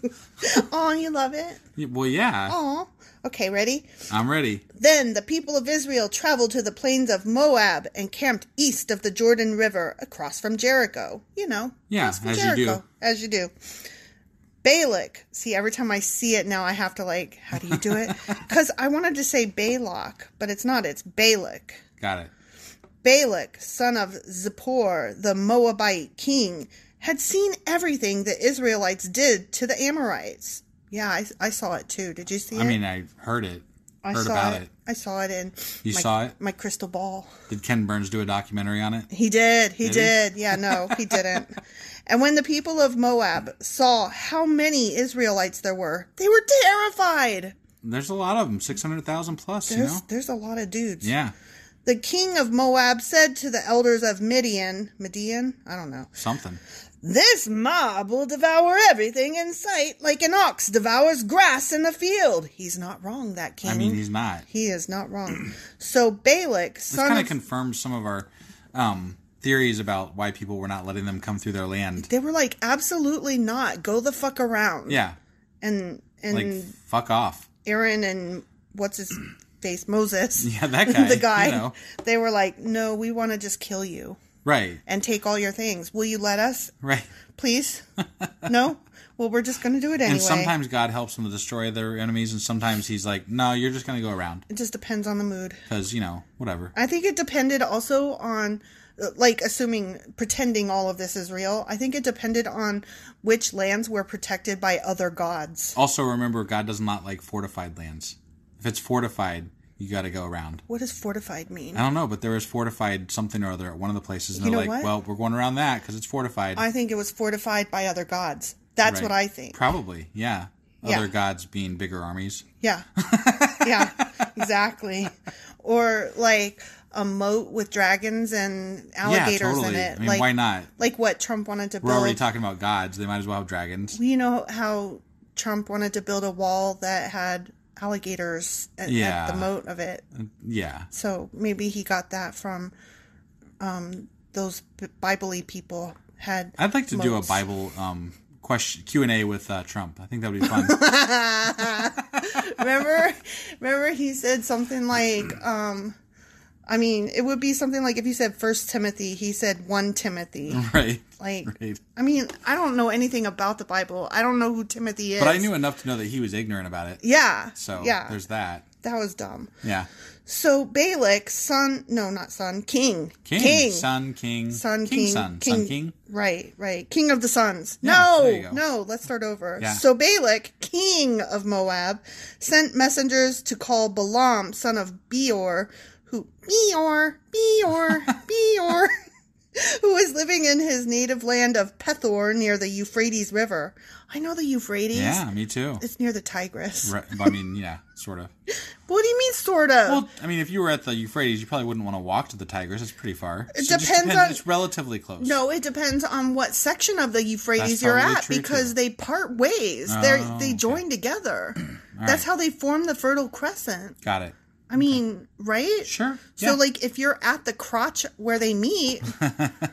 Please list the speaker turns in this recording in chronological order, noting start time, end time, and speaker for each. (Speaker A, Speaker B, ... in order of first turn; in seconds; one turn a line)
Speaker A: 0.4-1.6
Speaker B: 1.8-2.6
Speaker A: 2.5-3.9
Speaker B: 4.1-4.7
Speaker A: 4.7-13.5
Speaker B: 11.9-12.8
Speaker A: 14.6-21.8
Speaker B: 17.7-18.2
Speaker B: 22.0-22.3
Speaker A: 23.0-32.8
Speaker B: 32.5-34.7
Speaker A: 34.0-37.3
Speaker B: 35.9-36.4
Speaker B: 37.5-39.1
Speaker A: 39.1-47.5
Speaker B: 39.8-41.4
Speaker B: 47.8-50.0
Speaker A: 49.7-51.1
Speaker B: 51.0-51.3
Speaker A: 51.9-56.1
Speaker B: 56.1-56.6
Speaker A: 57.0-67.4
Speaker B: 63.6-64.5
Speaker B: 66.9-72.1
Speaker A: 72.0-75.0
Speaker B: 74.9-75.2
Speaker A: 75.6-76.7
Speaker B: 76.3-77.5
Speaker A: 77.6-84.2
Speaker B: 80.4-81.8
Speaker B: 84.4-84.8
Speaker A: 84.9-86.7
Speaker B: 86.8-87.1
Speaker A: 87.3-87.8
Speaker B: 88.0-88.3
Speaker A: 88.5-90.5
Speaker B: 90.0-94.5
Speaker A: 94.5-95.6
Speaker B: 95.7-96.7
Speaker A: 96.8-105.8
Speaker B: 105.8-110.6
Speaker A: 110.7-111.8
Speaker B: 111.7-116.6
Speaker A: 114.4-114.9
Speaker A: 116.6-119.6
Speaker B: 118.8-122.5
Speaker A: 122.6-122.9
Speaker B: 123.0-124.3
Speaker A: 123.6-132.2
Speaker B: 129.0-130.7
Speaker B: 131.8-134.0
Speaker A: 133.9-140.0
Speaker B: 138.8-139.5
Speaker B: 140.1-140.9
Speaker A: 140.9-142.7
Speaker A: 143.6-147.4
Speaker B: 146.6-150.8
Speaker A: 150.5-156.0
Speaker B: 151.8-152.4
Speaker A: 156.7-160.7
Speaker B: 160.5-161.8
Speaker A: 161.2-165.5
Speaker B: 165.2-167.0
Speaker A: 167.0-168.2
Speaker B: 167.5-168.7
Speaker A: 168.8-169.5
Speaker B: 169.6-169.9
Speaker A: 170.3-173.9
Speaker B: 173.2-175.9
Speaker A: 174.5-188.9
Speaker B: 177.8-178.6
Speaker A: 189.6-195.2
Speaker B: 194.9-195.8
Speaker A: 195.8-197.0
Speaker B: 196.8-198.3
Speaker A: 198.9-200.1
Speaker B: 199.9-205.4
Speaker A: 203.5-204.4
Speaker A: 205.2-214.0
Speaker B: 207.6-208.7
Speaker B: 209.9-210.8
Speaker B: 211.9-212.2
Speaker B: 214.0-215.0
Speaker A: 214.7-219.1
Speaker B: 215.8-216.6
Speaker B: 219.2-219.6